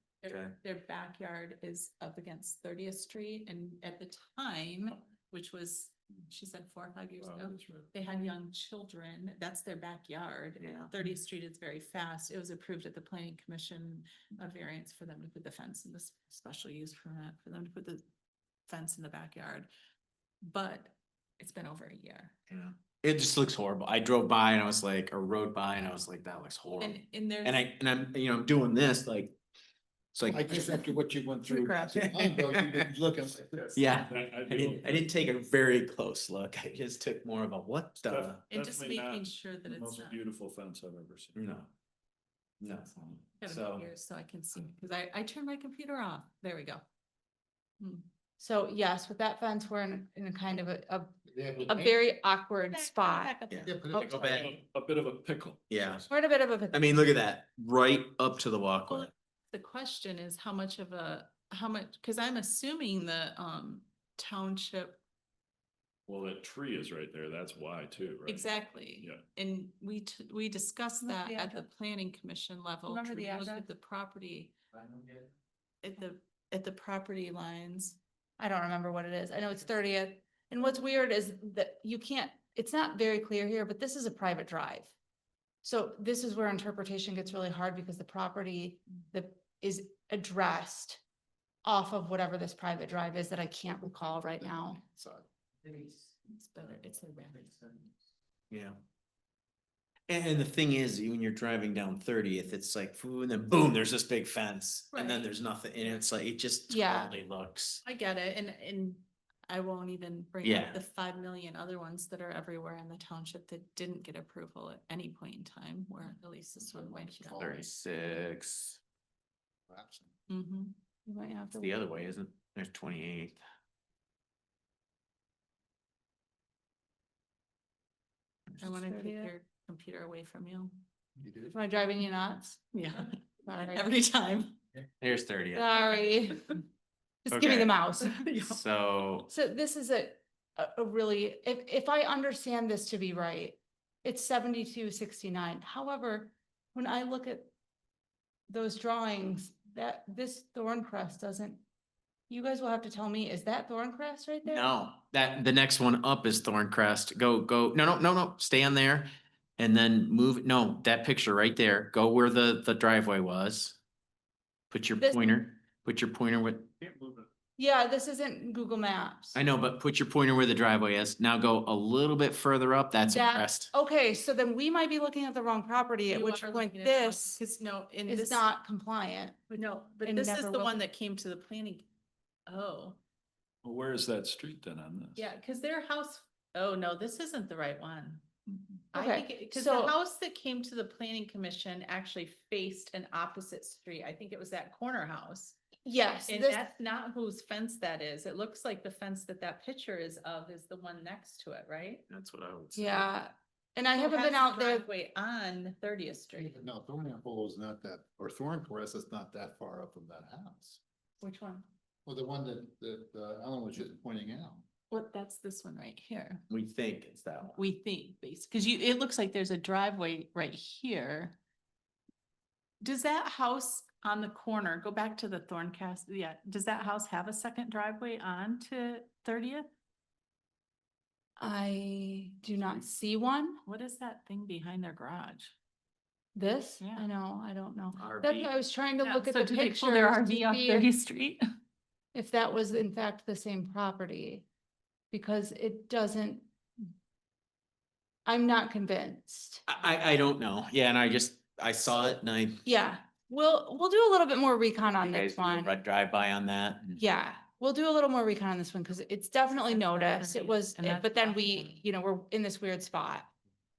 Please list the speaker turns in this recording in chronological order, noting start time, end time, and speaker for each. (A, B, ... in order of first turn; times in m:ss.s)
0:00.2-0:18.0 A
0:00.2-0:00.5 B
0:07.2-0:07.9 C
0:10.6-0:10.9 B
0:18.7-0:19.7 A
0:20.4-0:22.4 A
0:22.5-0:29.4 B
0:26.8-0:27.6 A
0:30.1-0:30.9 B
0:30.3-0:33.8 D
0:31.5-0:32.0 E
0:31.9-0:32.9 B
0:33.7-0:38.4 B
0:33.9-0:35.0 C
0:38.1-0:41.3 C
0:38.5-0:40.2 A
0:41.3-0:41.7 B
0:42.6-0:43.9 B
0:43.4-0:46.8 A
0:48.4-0:51.1 E
0:51.3-0:51.9 D
0:51.7-0:53.4 E
0:52.7-0:54.1 A
0:53.5-0:54.5 B
0:53.6-0:54.5 D
0:53.9-0:54.2 E
0:54.3-0:56.0 C
0:55.7-0:56.0 B
0:56.1-0:57.0 E
0:56.7-0:59.1 B
0:58.9-1:05.0 A
1:06.1-1:09.2 C
1:08.2-1:14.5 A
1:11.0-1:11.6 E
1:12.9-1:13.6 E
1:15.8-1:18.0 A
1:18.4-1:24.9 E
1:25.6-1:31.0 E
1:31.6-1:34.9 E
1:36.3-1:37.7 A
1:38.5-1:38.8 B
1:40.1-1:47.8 B
1:44.9-1:45.3 A
1:46.7-1:47.1 E
1:47.8-1:57.5 A
1:50.4-1:50.8 B
1:56.6-1:57.6 D
1:57.3-1:58.8 B
1:59.7-2:00.1 D
2:00.3-2:00.7 A
2:01.0-2:01.8 E
2:01.6-2:03.4 B
2:08.6-2:10.7 A
2:08.6-2:09.3 E
2:11.2-2:11.5 D
2:11.5-2:12.6 E
2:12.7-2:14.6 A
2:13.4-2:13.9 E
2:15.0-2:15.7 B
2:15.5-2:16.6 E
2:17.2-2:18.2 E
2:17.3-2:17.7 B
2:18.0-2:18.6 A
2:18.4-2:19.3 B
2:19.3-2:27.5 E
2:28.5-2:31.6 E
2:32.3-2:34.6 E
2:34.5-2:43.8 B
2:44.7-2:46.7 B
2:45.0-2:45.3 E
2:47.6-2:49.4 E
2:49.3-2:53.7 B
2:53.0-2:57.4 E
2:56.1-2:58.4 A
2:58.1-2:59.4 E
2:59.5-3:01.8 A
3:00.0-3:00.8 E
3:02.5-3:03.0 A
3:03.6-3:05.2 C
3:05.2-3:08.2 A
3:08.9-3:09.9 E
3:08.9-3:15.6 A
3:15.8-3:16.7 E
3:16.3-3:22.0 A
3:22.1-3:23.1 B
3:22.7-3:24.8 E
3:24.0-3:26.6 A
3:26.3-3:30.8 D
3:31.2-3:31.6 A
3:32.0-3:34.6 D
3:34.9-3:36.4 A
3:36.5-3:37.6 B
3:37.5-3:41.4 A
3:42.8-3:49.7 A
3:51.4-3:53.6 E
3:53.6-3:55.5 A
3:56.3-4:00.9 E
3:56.8-3:57.1 A
3:58.0-3:58.5 B
3:59.0-4:01.4 A
4:02.1-4:04.5 E
4:05.1-4:06.5 E
4:08.2-4:09.6 E
4:09.7-4:12.6 B
4:12.6-4:15.8 E
4:15.0-4:17.0 B
4:17.0-4:23.3 E
4:19.6-4:21.8 A